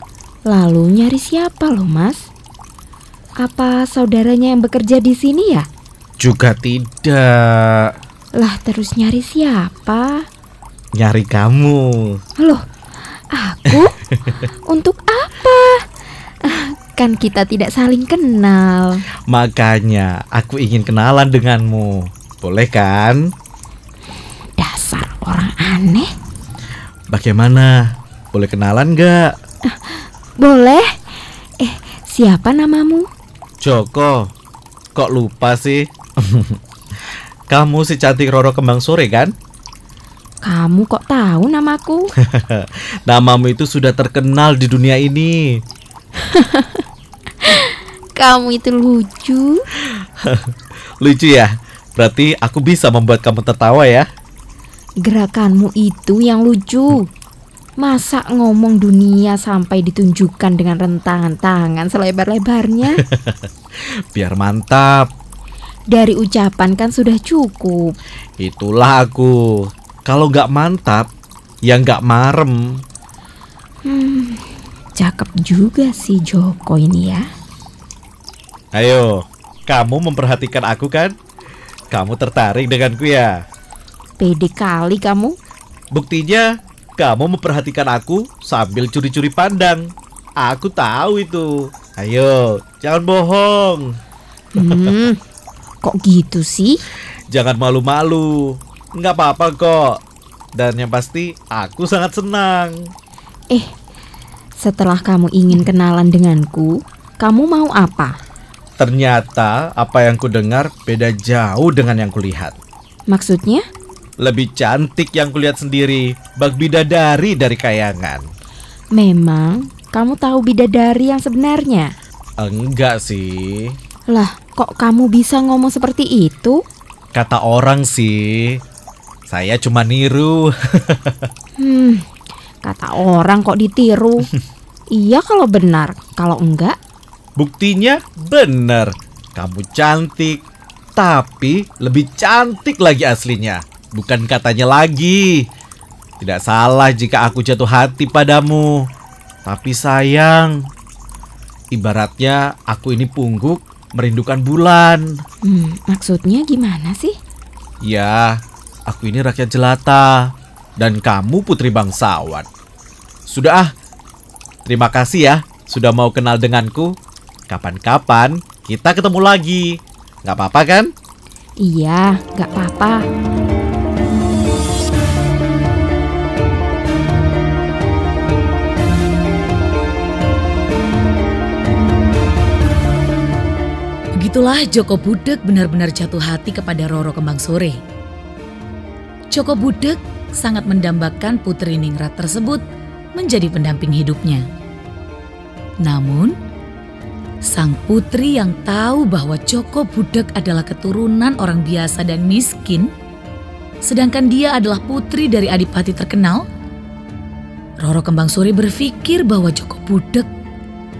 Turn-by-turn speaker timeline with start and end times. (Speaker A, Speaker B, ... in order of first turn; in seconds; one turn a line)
Speaker A: 0.5-2.3
Speaker A: 3.4-5.7
Speaker B: 6.2-7.9
Speaker A: 8.4-10.3
Speaker B: 11.0-12.2
Speaker A: 12.4-12.7
Speaker A: 13.3-15.9
Speaker B: 13.8-14.2
Speaker A: 16.4-19.0
Speaker B: 19.3-23.3
Speaker A: 24.6-26.1
Speaker B: 27.1-29.3
Speaker A: 29.6-31.0
Speaker A: 31.6-33.1
Speaker B: 33.6-34.3
Speaker B: 35.0-36.6
Speaker B: 37.5-39.3
Speaker A: 40.4-42.1
Speaker B: 42.2-45.6
Speaker A: 46.2-46.9
Speaker A: 47.4-49.6
Speaker B: 50.2-54.1
Speaker A: 55.0-57.1
Speaker A: 57.8-63.0
Speaker B: 63.1-63.4
Speaker B: 64.1-65.1
Speaker A: 65.9-68.0
Speaker B: 68.4-71.1
Speaker B: 71.7-72.8
Speaker A: 73.8-77.2
Speaker B: 78.7-81.2
Speaker B: 81.9-83.4
Speaker A: 84.2-85.4
Speaker B: 85.9-94.0
Speaker A: 94.6-95.2
Speaker B: 94.6-94.9
Speaker A: 95.8-96.8
Speaker B: 97.3-100.0
Speaker B: 100.5-102.9
Speaker A: 104.6-108.2
Speaker B: 108.8-112.6
Speaker A: 113.1-113.7
Speaker B: 114.2-118.2
Speaker A: 118.9-121.9
Speaker B: 122.4-123.8
Speaker A: 124.1-126.6
Speaker B: 127.1-128.6
Speaker B: 129.3-131.3
Speaker A: 131.6-132.1
Speaker A: 132.6-134.3
Speaker A: 134.9-136.8
Speaker B: 137.4-140.4
Speaker B: 141.0-145.5
Speaker B: 146.2-148.9
Speaker B: 149.4-150.7
Speaker B: 151.7-155.2
Speaker A: 155.4-157.2
Speaker B: 157.8-162.5
Speaker B: 163.3-163.7
Speaker B: 164.7-166.9
Speaker B: 167.5-170.9
Speaker A: 171.6-173.1
Speaker C: 184.2-187.8
Speaker C: 189.3-192.6
Speaker C: 193.2-194.4
Speaker C: 195.8-196.3
Speaker C: 197.5-202.9
Speaker C: 203.8-206.4
Speaker C: 207.8-210.3